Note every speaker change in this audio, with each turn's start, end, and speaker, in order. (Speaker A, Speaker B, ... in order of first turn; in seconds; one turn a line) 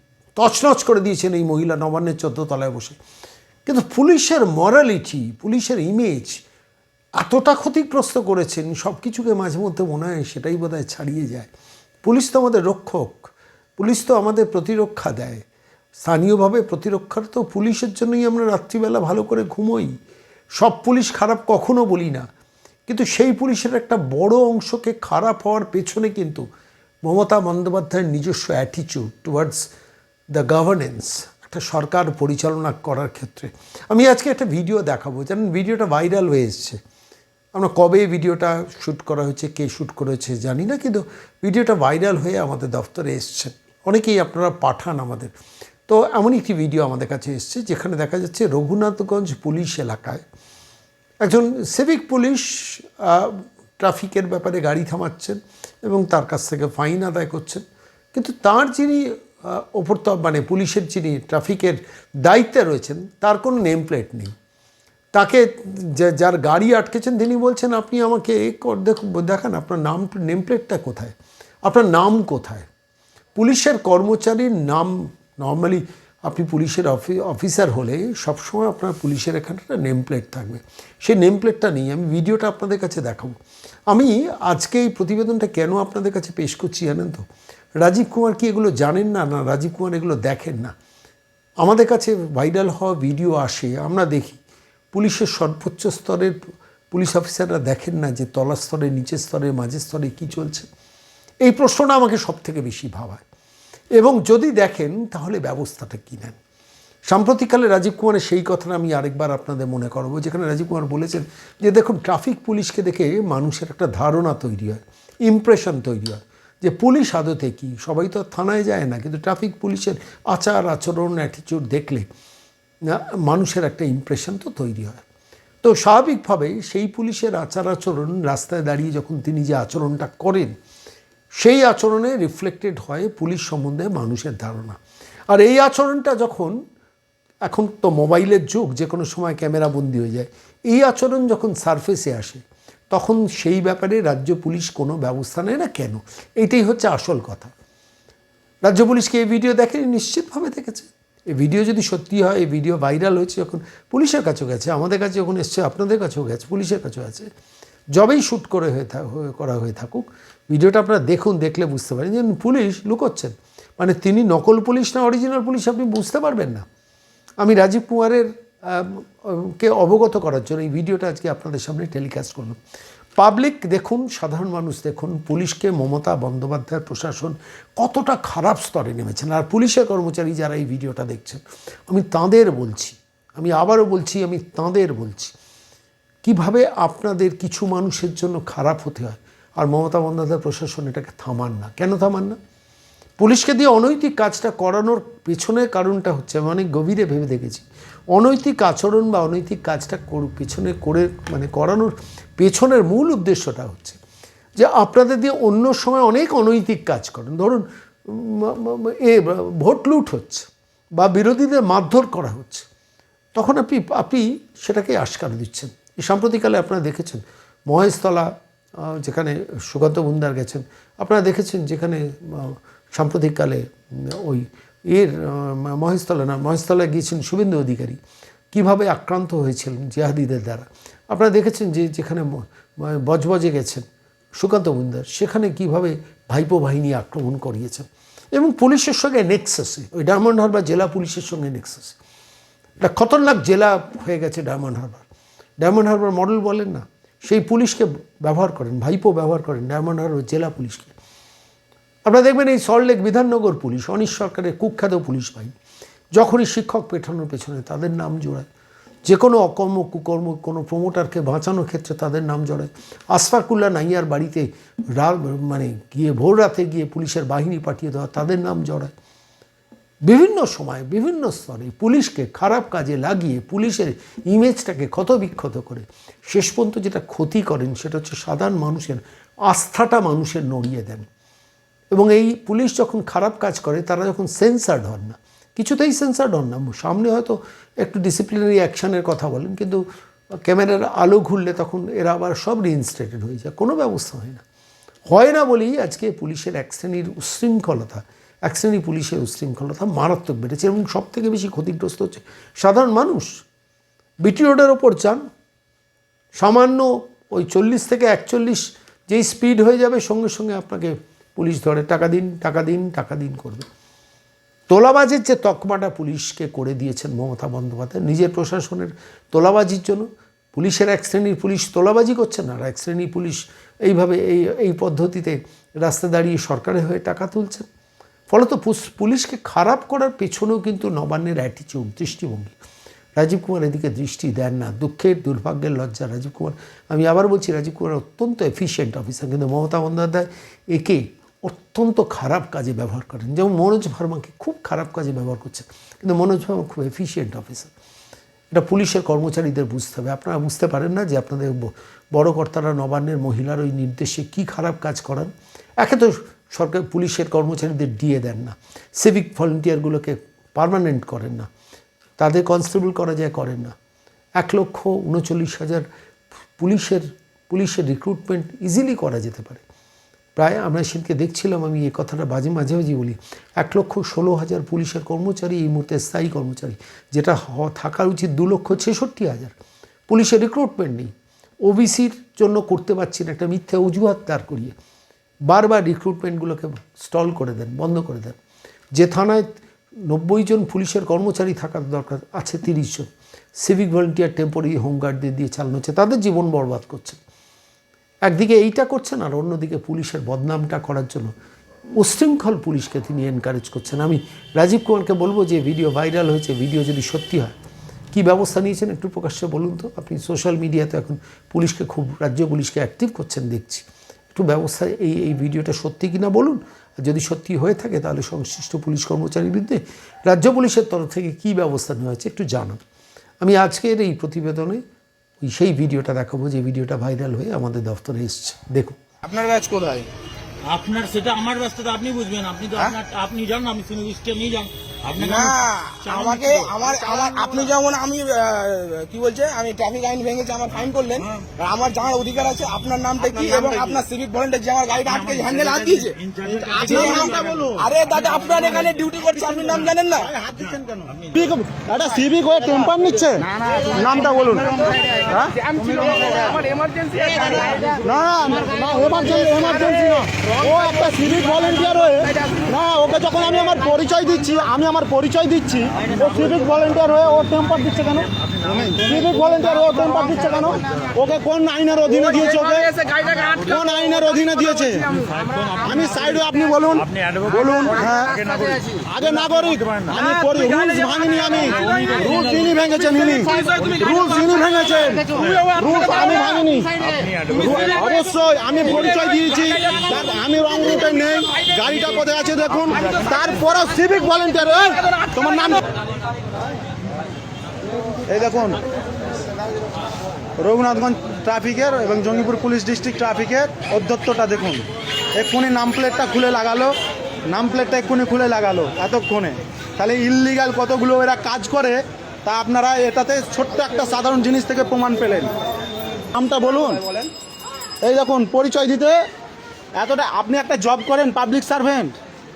Speaker A: 0.3-3.0
Speaker A: 3.6-6.4
Speaker A: 7.2-11.5
Speaker A: 12.0-15.4
Speaker A: 16.0-19.9
Speaker A: 20.6-22.3
Speaker A: 22.9-26.4
Speaker A: 27.0-29.6
Speaker A: 30.3-36.8
Speaker A: 37.5-45.3
Speaker A: 45.9-50.2
Speaker A: 51.2-57.6
Speaker A: 58.1-64.3
Speaker A: 65.1-72.7
Speaker A: 73.3-83.3
Speaker A: 83.9-87.2
Speaker A: 87.8-90.7
Speaker A: 91.6-94.4
Speaker A: 94.9-96.4
Speaker A: 96.9-100.7
Speaker A: 101.4-103.2
Speaker A: 104.0-106.4
Speaker A: 107.1-122.0
Speaker A: 122.8-125.0
Speaker A: 125.6-130.5
Speaker A: 131.4-134.8
Speaker A: 135.3-136.6
Speaker A: 137.4-147.5
Speaker A: 148.6-157.3
Speaker A: 157.9-166.6
Speaker A: 167.4-172.6
Speaker A: 173.2-185.3
Speaker A: 186.2-192.4
Speaker A: 193.2-204.0
Speaker A: 204.6-210.5
Speaker A: 211.0-212.6
Speaker A: 213.3-218.3
Speaker A: 218.8-228.0
Speaker A: 228.5-233.8
Speaker A: 234.4-241.9
Speaker A: 242.8-245.0
Speaker A: 245.6-250.9
Speaker A: 252.0-255.5
Speaker A: 256.1-258.4
Speaker A: 259.0-268.9
Speaker A: 270.0-281.1
Speaker A: 281.9-289.8
Speaker A: 290.4-294.4
Speaker A: 295.1-303.4
Speaker A: 304.2-305.2
Speaker A: 306.4-313.7
Speaker A: 314.7-327.6
Speaker A: 328.3-332.5
Speaker A: 333.1-347.7
Speaker A: 348.5-361.5
Speaker A: 362.2-363.7
Speaker A: 364.4-365.8
Speaker A: 366.6-369.6
Speaker A: 370.4-379.5
Speaker A: 380.1-381.1
Speaker A: 381.6-384.7
Speaker A: 385.5-388.4
Speaker A: 388.9-389.5
Speaker A: 390.1-393.1
Speaker A: 393.6-397.2
Speaker A: 398.2-401.3
Speaker A: 402.0-407.6
Speaker A: 408.1-422.8
Speaker A: 423.4-424.8
Speaker A: 425.4-429.0
Speaker B: 429.2-430.1
Speaker C: 430.6-436.8
Speaker B: 435.2-450.3
Speaker D: 436.9-437.5
Speaker C: 441.2-441.5
Speaker D: 443.2-444.0
Speaker C: 445.0-448.9
Speaker D: 446.7-447.9
Speaker D: 449.2-455.6
Speaker C: 450.6-451.3
Speaker B: 453.5-458.0
Speaker C: 453.7-454.3
Speaker C: 455.1-456.5
Speaker D: 457.9-472.9
Speaker B: 458.7-462.7
Speaker C: 466.0-466.5
Speaker C: 468.4-470.3
Speaker B: 472.1-475.8
Speaker D: 473.6-475.1
Speaker C: 475.1-480.2
Speaker D: 475.8-478.4
Speaker B: 477.7-478.8
Speaker D: 479.1-486.9
Speaker B: 480.1-486.6
Speaker C: 481.5-482.9
Speaker C: 483.6-484.3
Speaker C: 485.3-485.8
Speaker C: 486.9-488.2
Speaker D: 487.5-495.9
Speaker B: 489.0-490.1
Speaker C: 492.8-493.4
Speaker B: 495.0-495.8
Speaker D: 498.3-498.8
Speaker D: 500.6-506.9
Speaker D: 507.5-515.5
Speaker D: 516.3-517.1
Speaker D: 518.0-519.2
Speaker D: 520.0-522.2